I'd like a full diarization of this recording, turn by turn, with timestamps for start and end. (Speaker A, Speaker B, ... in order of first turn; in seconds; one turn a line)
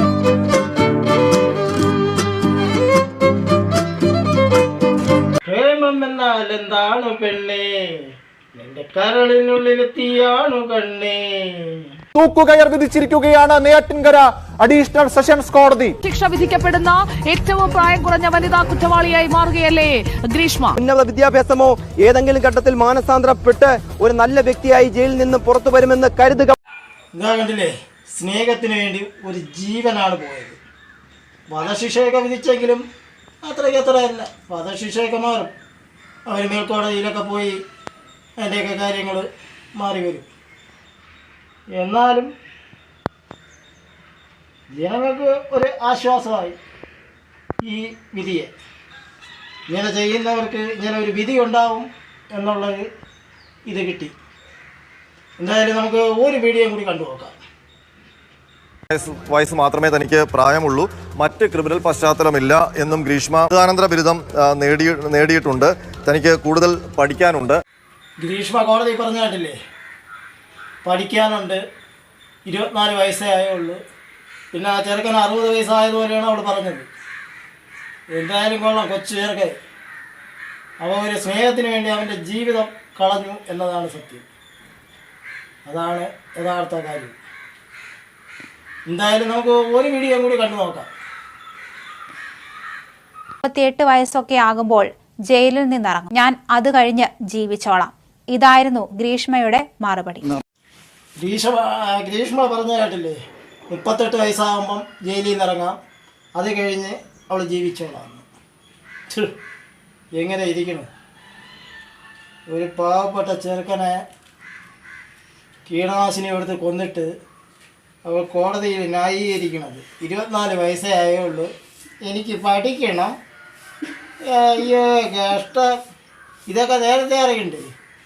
Speaker A: 5.4-11.8
Speaker B: 12.1-15.9
Speaker C: 16.0-20.8
Speaker D: 20.8-26.5
Speaker A: 27.1-30.6
Speaker A: 31.5-32.8
Speaker A: 33.4-35.5
Speaker A: 36.2-37.6
Speaker A: 38.4-40.3
Speaker A: 41.7-42.3
Speaker A: 44.7-46.5
Speaker A: 47.6-48.5
Speaker A: 49.7-52.9
Speaker A: 53.7-54.1
Speaker A: 55.4-57.4
Speaker E: 58.9-67.5
Speaker A: 68.2-69.6
Speaker A: 70.8-71.6
Speaker A: 72.5-73.8
Speaker A: 74.5-76.9
Speaker A: 78.1-79.6
Speaker A: 80.8-84.2
Speaker A: 85.7-87.2
Speaker A: 88.9-90.9
Speaker F: 93.4-100.2
Speaker A: 101.2-103.2
Speaker A: 103.7-105.8
Speaker A: 106.3-108.2
Speaker A: 109.1-109.3
Speaker A: 110.1-110.9
Speaker A: 112.5-114.0
Speaker A: 115.7-117.1
Speaker A: 118.0-121.5
Speaker A: 122.0-123.1
Speaker A: 124.3-125.7
Speaker A: 126.5-127.7